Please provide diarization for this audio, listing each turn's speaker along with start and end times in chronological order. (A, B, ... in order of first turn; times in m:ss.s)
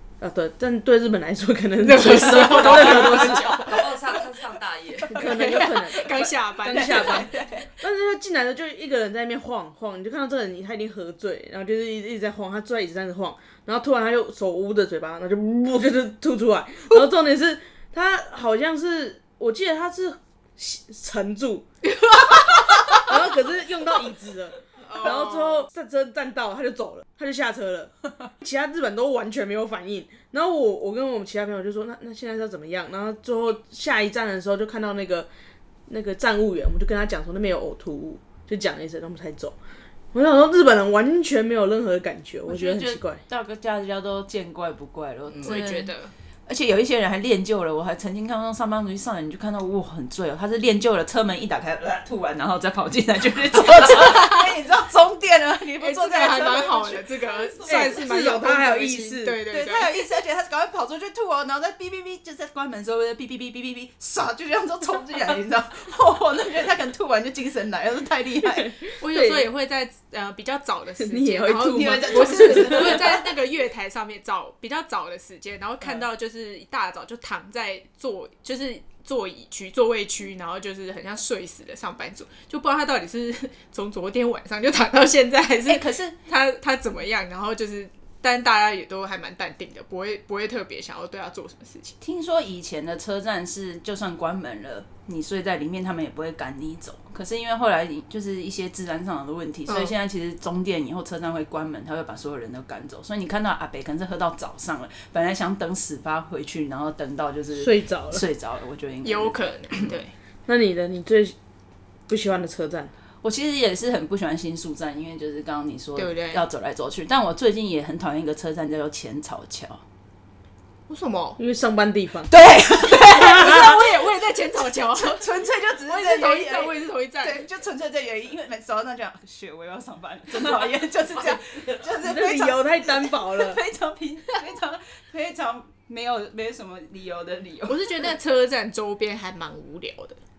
0:00.2-0:03.7 A
0:01.8-0:03.8 B
0:02.3-0:03.4 C
0:02.7-0:05.3 D
0:05.1-0:21.6 A
0:05.1-0:07.3 B
0:06.7-0:07.7 C
0:22.0-0:22.3 B
0:22.9-0:35.3 A
0:24.8-0:25.7 B
0:35.9-0:39.6 A
0:40.1-0:43.2 A
0:42.4-0:45.9 C
0:45.3-0:45.6 D
0:45.4-0:46.1 B
0:46.4-0:57.2 C
0:55.8-1:00.0 B
0:57.4-0:57.8 D
0:57.6-0:59.4 A
0:59.5-1:08.8 C
1:09.0-1:32.0 B
1:09.1-1:09.5 A
1:11.0-1:13.0 A
1:11.6-1:13.3 C
1:25.6-1:26.1 C
1:32.0-1:50.0 C
1:39.7-1:39.9 B
1:47.5-1:48.2 A
1:49.0-1:50.1 B
1:50.4-1:51.3 A
1:52.1-1:52.9 A
1:53.2-1:59.8 C
1:56.0-1:56.4 B
2:00.9-2:01.4 B
2:01.4-2:02.3 A
2:02.3-2:03.9 C
2:02.9-2:05.3 B
2:04.9-2:18.1 C
2:05.8-2:07.5 B
2:11.9-2:13.6 A
2:17.7-2:20.2 B